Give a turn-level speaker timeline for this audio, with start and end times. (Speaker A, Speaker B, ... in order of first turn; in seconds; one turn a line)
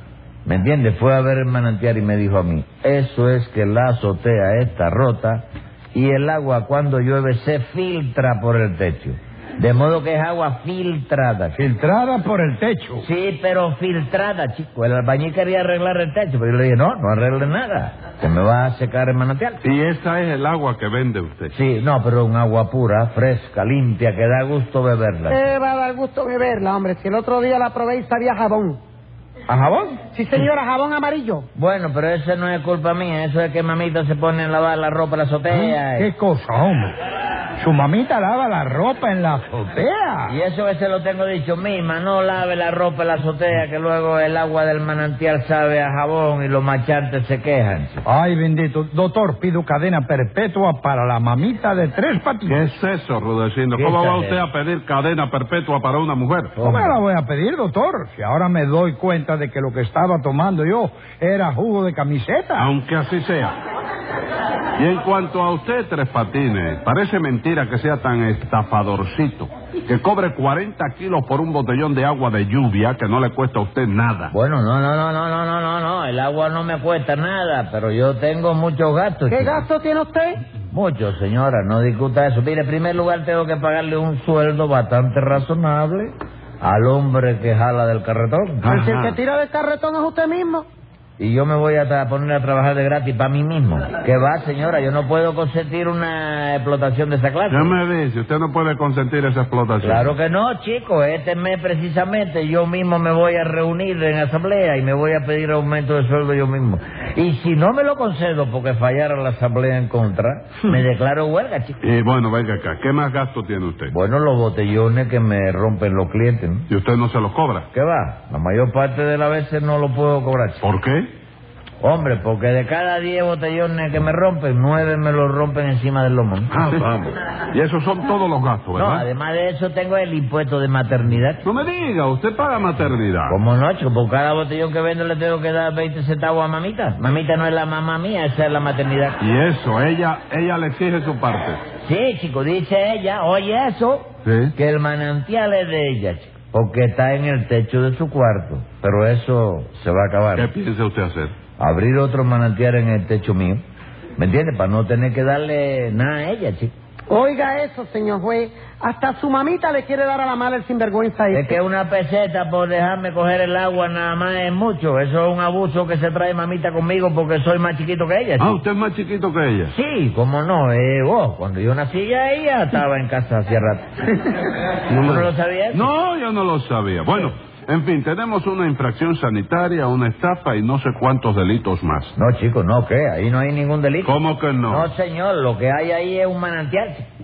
Speaker A: 0.4-11.6
Speaker B: 11.6-13.1
Speaker A: 13.0-19.6
Speaker C: 19.6-21.5
Speaker A: 21.5-25.4
Speaker D: 25.3-28.8
Speaker A: 29.5-30.0
Speaker D: 30.1-31.4
Speaker A: 31.5-36.1
Speaker B: 36.0-36.9
Speaker B: 37.6-40.3
Speaker A: 40.3-48.0
Speaker B: 48.0-52.6
Speaker C: 52.5-56.7
Speaker A: 53.7-54.4
Speaker A: 56.6-57.0
Speaker B: 56.6-62.7
Speaker C: 62.6-63.5
Speaker C: 64.8-74.3
Speaker A: 74.3-79.7
Speaker D: 79.3-80.4
Speaker A: 80.7-88.7
Speaker C: 88.6-89.2
Speaker D: 88.6-90.7
Speaker A: 91.2-97.7
Speaker C: 97.5-100.2
Speaker A: 99.8-111.8
Speaker C: 111.8-113.9
Speaker A: 113.9-116.7
Speaker C: 116.7-117.7
Speaker A: 117.7-120.6
Speaker C: 120.6-121.1
Speaker A: 121.8-126.5
Speaker C: 126.5-129.1
Speaker A: 128.7-131.4
Speaker C: 131.4-133.4
Speaker A: 133.3-139.2
Speaker C: 139.2-141.6
Speaker A: 141.8-150.5
Speaker C: 144.2-144.5
Speaker C: 150.3-151.3
Speaker A: 151.6-153.6
Speaker A: 154.2-156.7
Speaker D: 157.1-161.6
Speaker A: 161.3-168.5
Speaker C: 168.4-169.7
Speaker A: 169.7-175.9
Speaker C: 174.9-182.1
Speaker A: 182.2-187.1
Speaker C: 184.0-184.9